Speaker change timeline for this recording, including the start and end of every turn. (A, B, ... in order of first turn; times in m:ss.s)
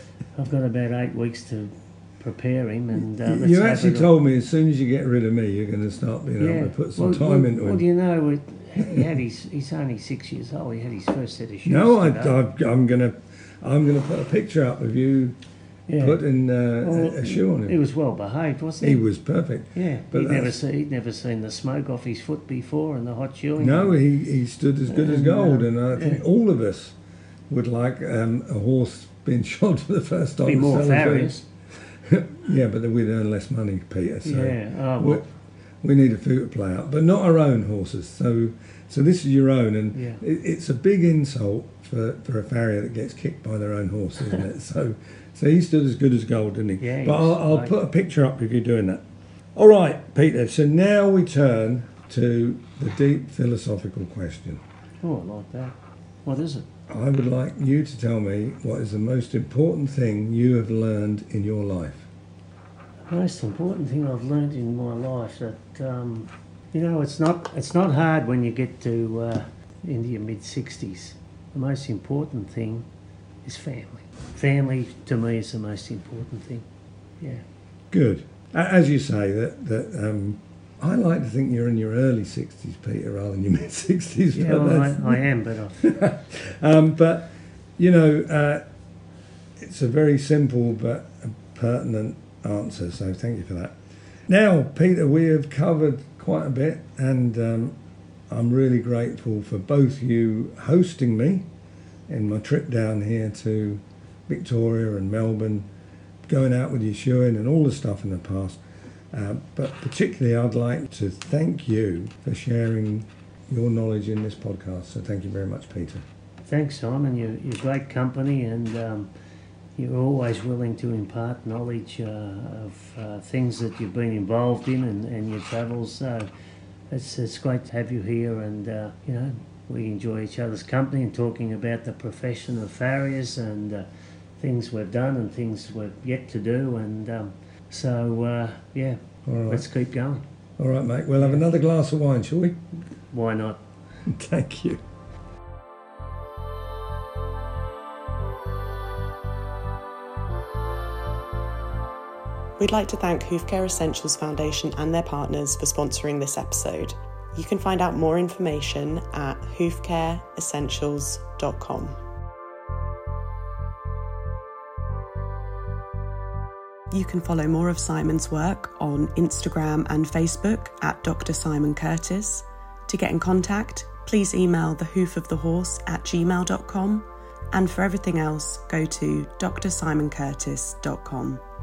0:00.4-0:04.1 A
0:03.0-0:07.8 B
0:06.4-0:12.4 A
0:08.8-0:09.1 B
0:11.6-0:15.4 B
0:15.9-0:16.2 A
0:16.0-0:17.8 B
0:16.8-0:19.0 A
0:18.8-0:20.6 B
0:19.7-0:24.0 A
0:23.6-0:27.0 B
0:24.9-0:26.2 A
0:27.5-0:31.4 B
0:30.4-0:31.4 A
0:31.9-0:35.2 B
0:34.2-0:35.2 A
0:35.8-0:49.0 B
0:39.9-0:40.2 A
0:46.8-0:47.7 A
0:49.6-0:54.6 B
0:55.0-0:56.6 A
0:56.9-1:02.1 B
1:03.1-1:12.9 A
1:13.4-1:16.7 A
1:17.9-1:25.2 B
1:24.3-1:25.9 A
1:25.8-1:28.6 B
1:29.6-1:33.8 B
1:34.3-1:37.8 B
1:38.3-1:41.5 B
1:42.1-1:45.7 B
1:46.3-1:48.6 B
1:49.1-1:56.0 B
1:56.5-1:59.1 A
1:59.8-2:06.3 A
2:06.9-2:13.9 A
2:14.4-2:20.2 A
2:19.3-2:19.7 B
2:20.6-2:22.6 B
2:23.1-2:23.6 A
2:24.1-2:24.8 B
2:32.6-2:42.0 C
2:46.9-3:01.4 C